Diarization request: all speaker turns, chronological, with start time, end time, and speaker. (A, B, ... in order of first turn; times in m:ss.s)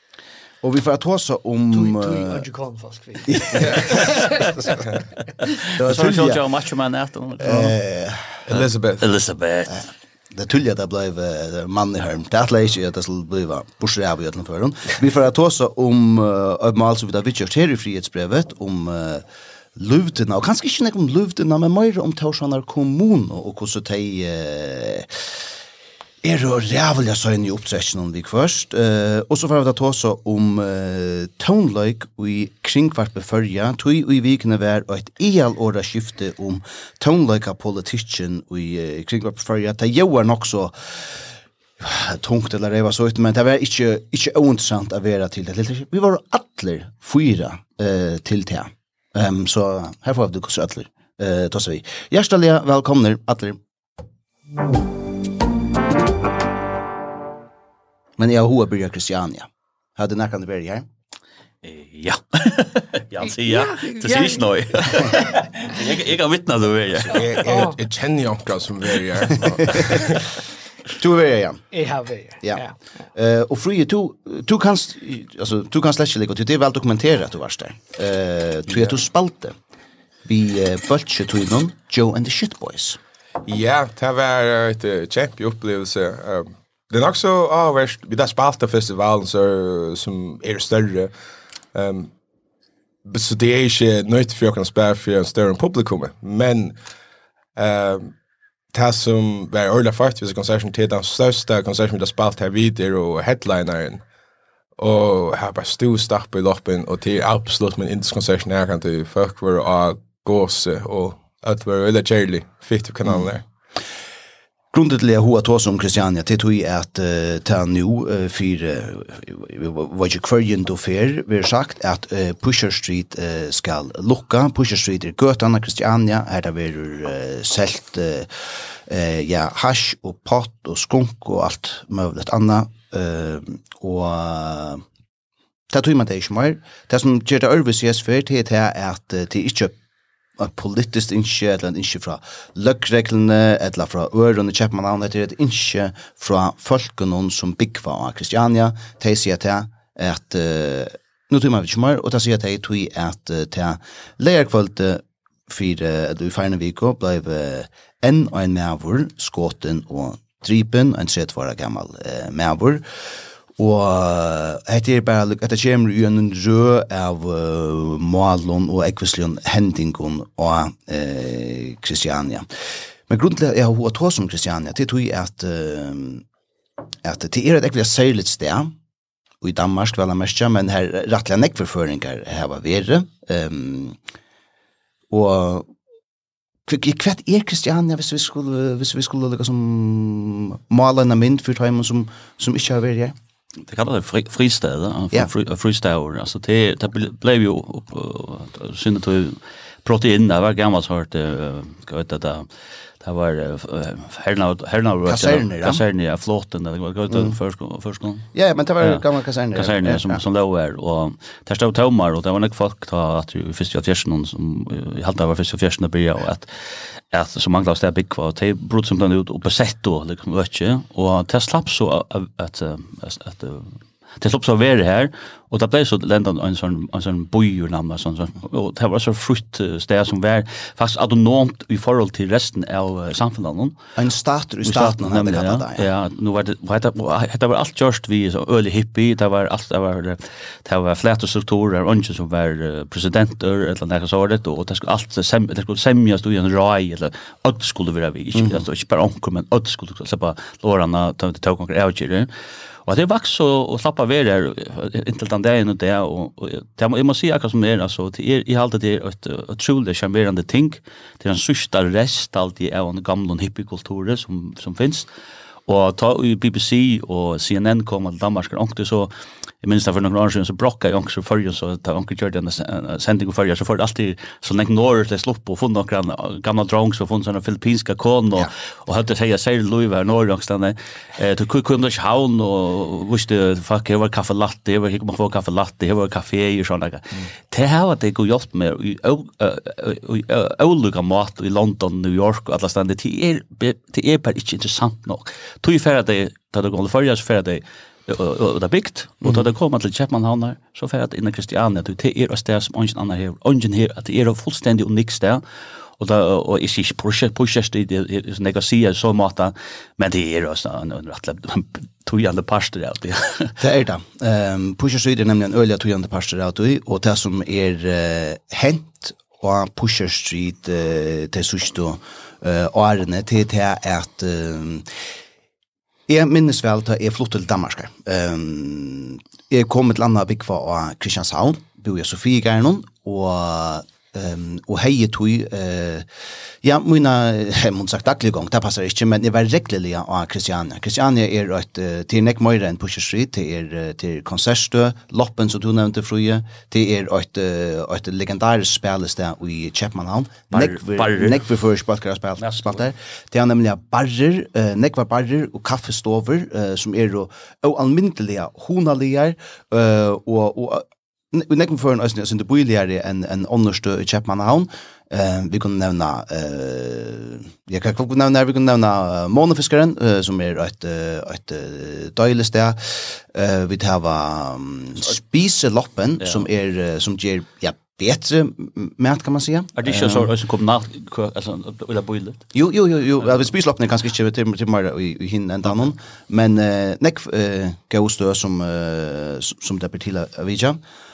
0:00.6-0:02.4 A
0:01.7-0:04.7 B
0:03.3-0:04.2 A
0:03.6-0:04.0 C
0:04.1-0:04.4 D
0:05.5-0:07.8 D
0:05.8-0:06.4 A
0:07.4-0:08.4 A
0:08.5-0:09.0 C
0:08.5-0:09.8 D
0:10.3-0:19.2 A
0:19.8-0:25.2 A
0:26.2-0:41.2 A
0:41.8-0:53.6 A
0:58.2-1:00.9 A
1:01.6-1:07.4 D
1:03.4-1:04.5 B
1:05.0-1:05.3 B
1:07.1-1:10.3 C
1:07.5-1:07.8 B
1:09.4-1:10.0 A
1:11.0-1:11.6 A
1:11.7-1:12.8 B
1:13.2-1:19.6 A
1:20.2-1:23.0 A
1:23.5-1:31.1 C
1:31.8-1:32.1 C
1:33.1-1:36.8 C
1:37.6-1:38.1 C
1:38.7-1:44.0 C
1:44.8-1:53.4 C
1:54.7-2:14.8 A
2:15.7-2:19.8 A
2:20.4-2:42.8 A
2:43.6-2:52.5 A
2:53.1-2:56.2 A
2:57.0-2:58.7 A
2:59.4-3:04.0 A
3:05.1-3:05.7 A
3:06.7-3:13.2 A
3:13.7-3:22.5 D
3:23.0-3:28.3 D
3:25.1-3:25.8 A
3:28.3-3:30.2 A
3:29.6-3:53.8 D
3:54.0-3:55.9 A
3:54.6-4:12.3 D
4:08.4-4:08.6 A
4:12.9-4:25.1 D
4:25.7-4:29.1 D
4:29.6-5:05.4 D
5:06.0-5:13.6 D
5:13.6-5:24.9 A
5:26.1-5:36.1 A
5:36.6-6:20.3 A
5:50.5-5:51.4 D
5:52.4-5:52.8 D
6:19.8-6:22.4 D
6:22.5-6:30.8 A